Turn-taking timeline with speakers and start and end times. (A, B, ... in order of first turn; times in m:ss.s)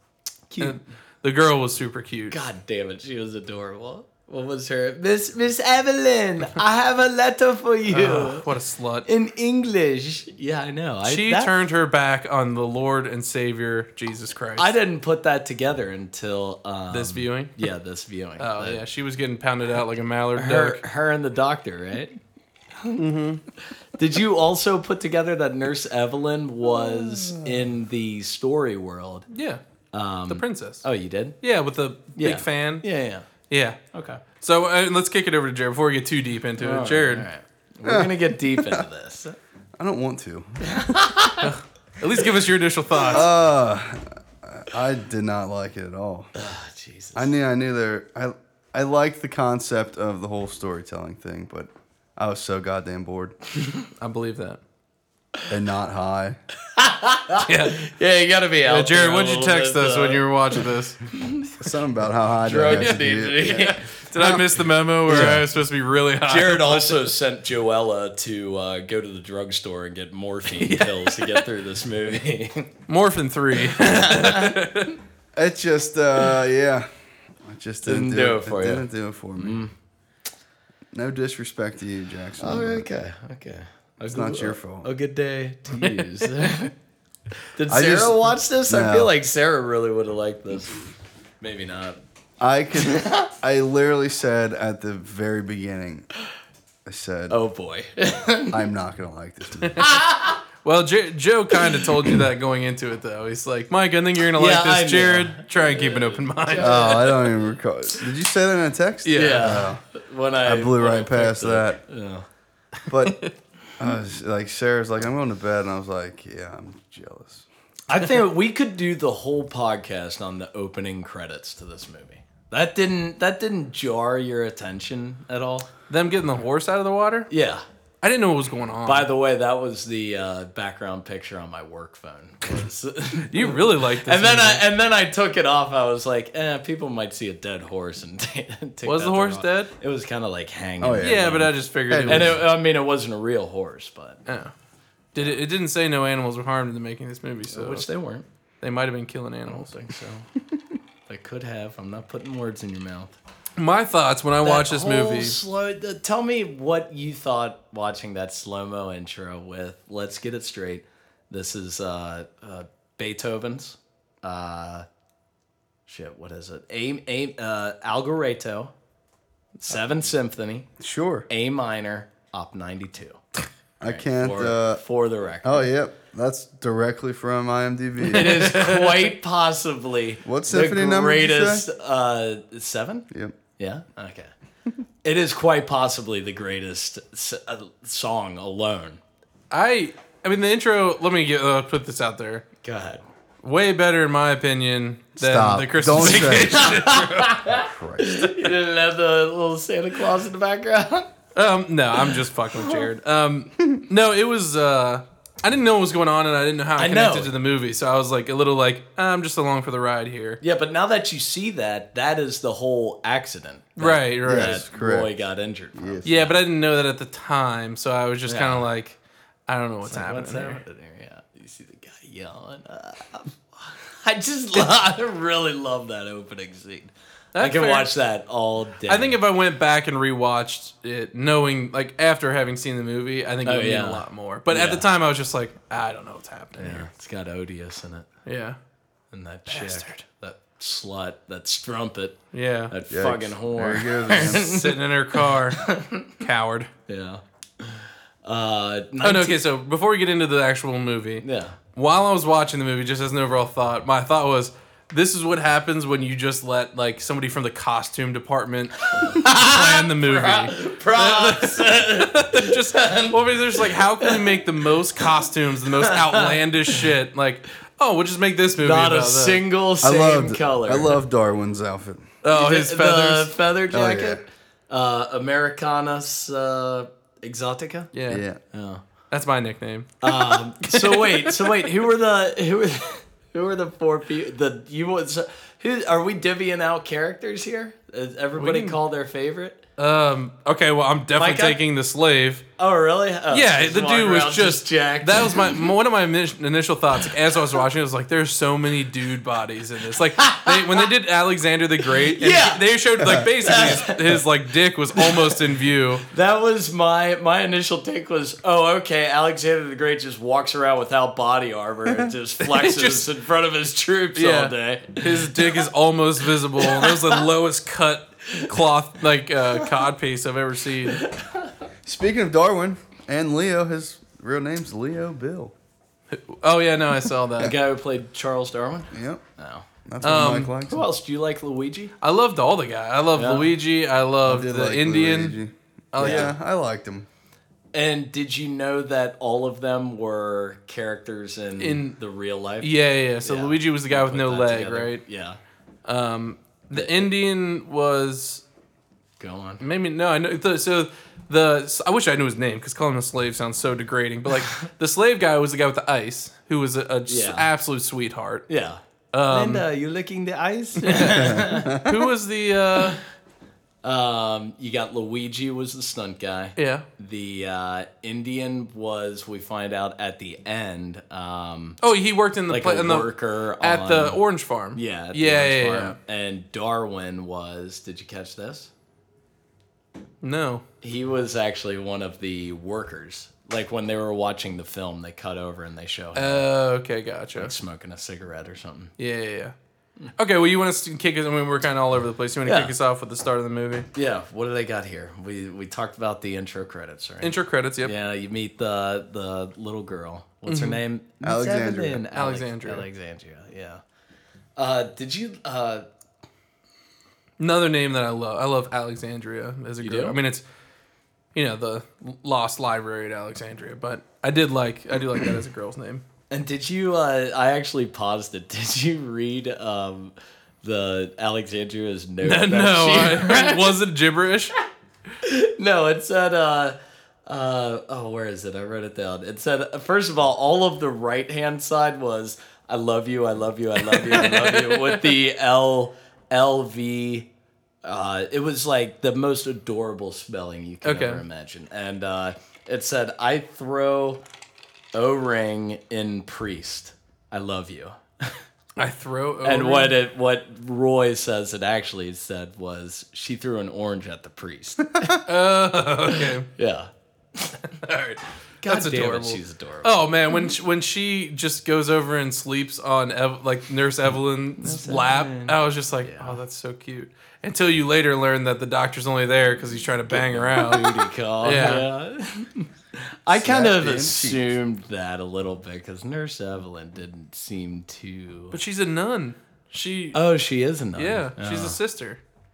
0:00.5-0:00.8 A
0:00.6-0:02.4 B
0:02.3-0:08.5 A
0:07.9-0:09.1 B
0:09.1-0:11.5 A
0:11.0-0:14.7 B
0:14.6-0:18.8 A
0:16.9-0:17.6 B
0:18.4-0:20.8 B
0:20.4-0:22.2 A
0:22.9-0:23.4 B
0:24.0-0:29.3 A
0:29.3-0:29.6 B
0:29.9-0:31.4 A
0:30.3-0:30.8 B
0:31.4-0:32.9 B
0:32.2-0:33.3 A
0:33.5-0:33.8 B
0:33.9-0:34.2 A
0:34.4-0:37.3 B
0:36.6-0:39.4 A
0:37.8-0:38.9 C
0:39.8-0:40.9 C
0:40.6-0:41.5 A
0:41.4-0:43.3 B
0:43.1-0:46.3 C
0:46.4-0:47.3 A
0:47.2-0:53.4 C
0:54.0-0:54.6 B
0:55.5-0:56.4 C
0:56.8-1:00.6 A
0:57.5-0:57.8 B
0:58.6-1:01.0 B
1:01.2-1:01.6 A
1:01.5-1:04.5 C
1:02.4-1:03.9 A
1:04.0-1:07.0 B
1:05.1-1:05.5 C
1:06.3-1:12.7 A
1:10.6-1:11.5 B
1:12.9-1:15.0 B
1:13.7-1:14.7 A
1:15.4-1:19.6 C
1:17.8-1:18.9 A
1:19.4-1:19.7 A
1:20.9-1:22.9 C
1:22.4-1:26.7 A
1:24.1-1:24.9 C
1:25.7-1:26.6 B
1:27.6-1:30.9 A
1:27.7-1:29.1 C
1:31.4-1:32.0 A
1:32.4-1:36.1 C
1:32.8-1:33.3 A
1:36.9-1:37.4 C
1:37.3-1:38.6 A
1:38.5-1:39.8 C
1:39.8-1:40.4 A
1:40.6-1:47.0 B
1:41.6-1:42.2 A
1:44.4-1:47.5 A
1:46.6-1:49.8 C
1:49.0-1:49.7 B
1:49.2-1:52.3 A
1:50.4-1:51.8 C
1:52.9-1:53.3 B
1:52.9-1:57.5 C
1:57.9-2:05.7 A
2:05.9-2:07.3 B
2:07.3-2:07.6 A
2:08.0-2:09.1 B
2:08.9-2:24.2 A
2:13.3-2:14.6 B
2:18.8-2:19.7 B
2:20.8-2:22.4 C
2:21.0-2:22.4 B
2:24.3-2:24.5 B
2:25.1-2:27.9 B
2:27.5-2:28.3 A
2:28.6-2:29.8 B
2:29.5-2:30.3 A
2:31.1-2:33.2 A
2:33.6-2:35.4 B
2:34.4-2:44.9 A
2:45.9-2:48.7 A
2:49.6-2:50.7 A
2:50.8-2:51.3 C
2:51.3-2:53.2 A
2:53.8-2:54.8 C
2:53.8-2:55.7 A
2:55.4-2:58.6 C
2:58.1-3:03.1 A
2:58.1-2:59.1 B
3:00.2-3:01.7 C
3:03.1-3:03.4 C
3:03.6-3:04.3 A
3:05.0-3:09.0 A
3:09.5-3:12.4 B
3:12.6-3:13.0 A
3:13.4-3:17.4 B
3:15.2-3:16.7 C
3:16.1-3:21.1 A
3:17.5-3:18.5 C
3:21.4-3:30.4 B
3:22.0-3:22.8 A
3:26.8-3:27.3 A
3:30.4-3:36.4 A
3:33.8-3:34.6 B
3:34.2-3:35.1 C
3:35.8-3:36.1 C
3:36.0-3:40.6 B
3:38.3-3:38.7 A
3:39.8-3:49.2 A
3:47.4-3:47.9 B
3:48.9-3:56.9 B
3:53.4-3:54.8 A
3:56.6-3:58.1 A
3:58.3-3:58.6 B
3:59.1-4:06.2 A
3:59.5-4:00.0 B
4:02.3-4:02.7 B
4:02.9-4:04.6 C
4:04.2-4:06.7 B
4:06.9-4:09.4 A
4:09.0-4:29.4 B
4:11.2-4:11.6 A
4:18.9-4:24.4 A
4:25.0-4:26.9 A
4:28.6-4:31.0 A
4:29.8-4:32.1 C
4:32.2-4:33.4 B
4:32.3-4:37.9 A
4:33.7-4:34.2 C
4:37.9-4:38.2 B
4:38.1-4:38.4 C
4:38.5-4:38.8 A
4:39.1-4:41.6 B
4:40.0-4:49.6 A
4:48.4-4:48.8 B
4:49.8-4:52.4 B
4:51.2-4:51.6 A
4:52.6-4:55.7 A
4:53.3-5:06.1 B
5:00.2-5:00.9 A
5:01.9-5:04.2 A
5:05.0-5:05.4 A
5:06.1-5:15.7 A
5:12.4-5:13.1 B
5:14.2-5:21.1 B
5:16.5-5:17.2 A
5:18.3-5:18.6 A
5:20.9-5:21.5 A
5:21.8-5:25.5 C
5:26.1-5:27.6 B
5:27.4-5:29.7 A
5:28.9-5:29.2 C
5:29.9-5:30.8 C
5:30.0-5:30.6 B
5:30.7-5:31.9 A
5:32.0-5:35.4 B
5:33.2-5:33.5 A
5:34.2-5:37.1 C
5:35.9-5:36.3 B
5:36.0-5:36.3 A
5:37.7-5:45.4 A
5:41.6-5:42.0 B
5:42.6-5:45.0 B
5:45.9-5:48.4 B
5:46.7-5:47.1 A
5:49.2-5:49.6 A
5:49.6-5:58.5 B
5:57.1-5:57.5 A
5:58.5-6:01.8 A
5:59.1-5:59.6 B
6:00.8-6:03.0 B
6:01.2-6:02.1 C
6:03.8-6:11.8 A
6:06.6-6:06.8 B
6:11.8-6:16.0 B
6:12.5-6:14.2 A
6:14.7-6:18.7 A
6:20.2-6:20.6 B
6:20.8-6:26.5 A
6:26.2-6:27.5 B
6:27.4-6:28.9 A
6:29.0-6:29.5 B
6:30.2-6:33.9 B
6:32.4-6:32.7 A
6:33.9-6:43.8 A
6:37.2-6:37.9 B
6:40.5-6:40.8 B
6:41.2-6:42.0 C
6:42.1-6:42.9 B
6:44.6-6:45.9 A
6:47.4-6:50.4 B
6:49.8-6:50.2 A
6:51.4-6:56.0 B
6:56.3-7:03.8 A
7:02.2-7:04.5 B
7:05.2-7:17.3 A
7:13.8-7:15.2 B
7:17.8-7:24.2 A
7:20.8-7:21.2 B
7:24.9-7:28.4 A
7:28.8-7:30.0 B
7:29.4-7:35.2 A
7:35.3-7:36.5 B
7:36.1-7:37.6 A
7:37.8-7:51.9 B
7:38.6-7:40.0 A
7:44.6-7:46.4 A
7:50.1-7:58.6 A
7:53.3-7:54.6 C
7:58.5-8:00.2 B
8:00.1-8:01.8 A
8:01.0-8:02.2 B